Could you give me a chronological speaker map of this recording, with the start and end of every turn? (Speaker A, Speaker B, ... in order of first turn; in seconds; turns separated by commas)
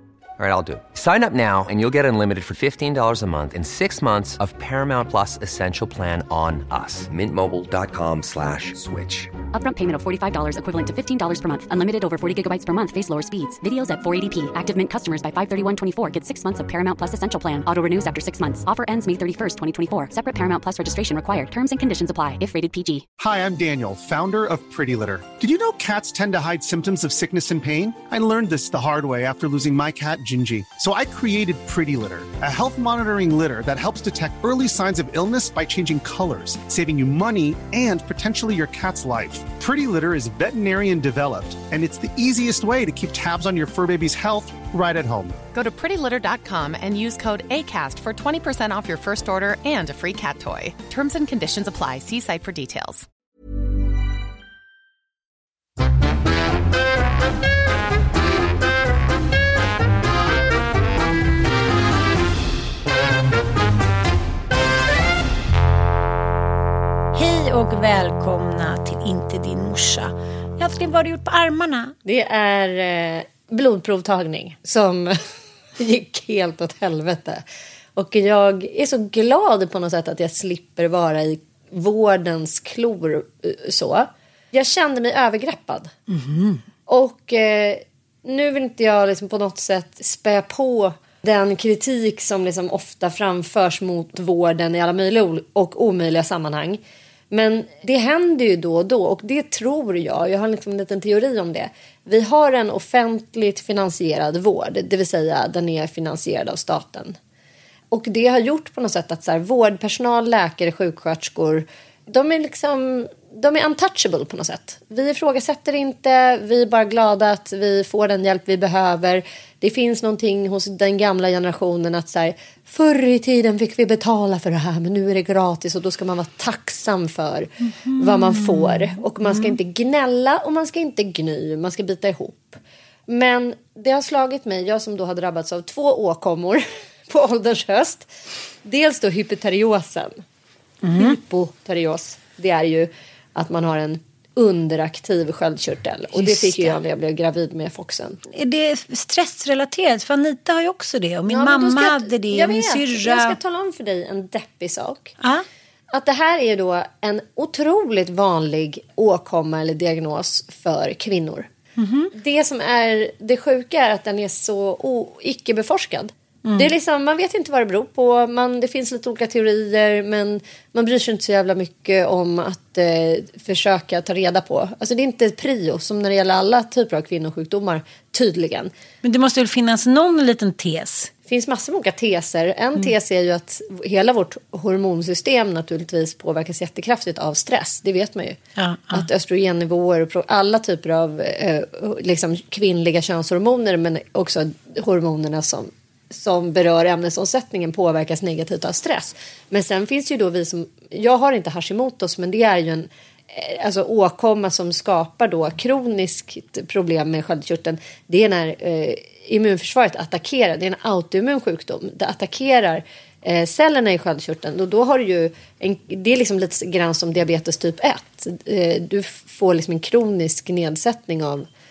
Speaker A: 0.4-9.4, Speaker B: 9.4-23.1, Speaker C: 23.2-45.4, Speaker D: 45.5-53.1, Speaker E: 67.1-72.0, Speaker F: 72.0-75.2, Speaker F: 75.8-77.4, Speaker F: 78.0-85.9, Speaker E: 86.1-86.6, Speaker F: 86.9-107.2, Speaker F: 107.9-138.1, Speaker E: 127.8-129.6, Speaker F: 138.6-140.2, Speaker E: 140.8-141.2, Speaker F: 141.0-148.2, Speaker E: 146.2-146.8, Speaker E: 148.3-153.4, Speaker F: 151.3-155.2, Speaker E: 155.2-155.4, Speaker F: 155.9-161.5, Speaker E: 161.8-162.1, Speaker F: 162.1-178.7, Speaker E: 166.4-166.7, Speaker E: 179.0-181.1, Speaker F: 181.3-188.4, Speaker E: 188.6-189.1, Speaker F: 188.9-221.5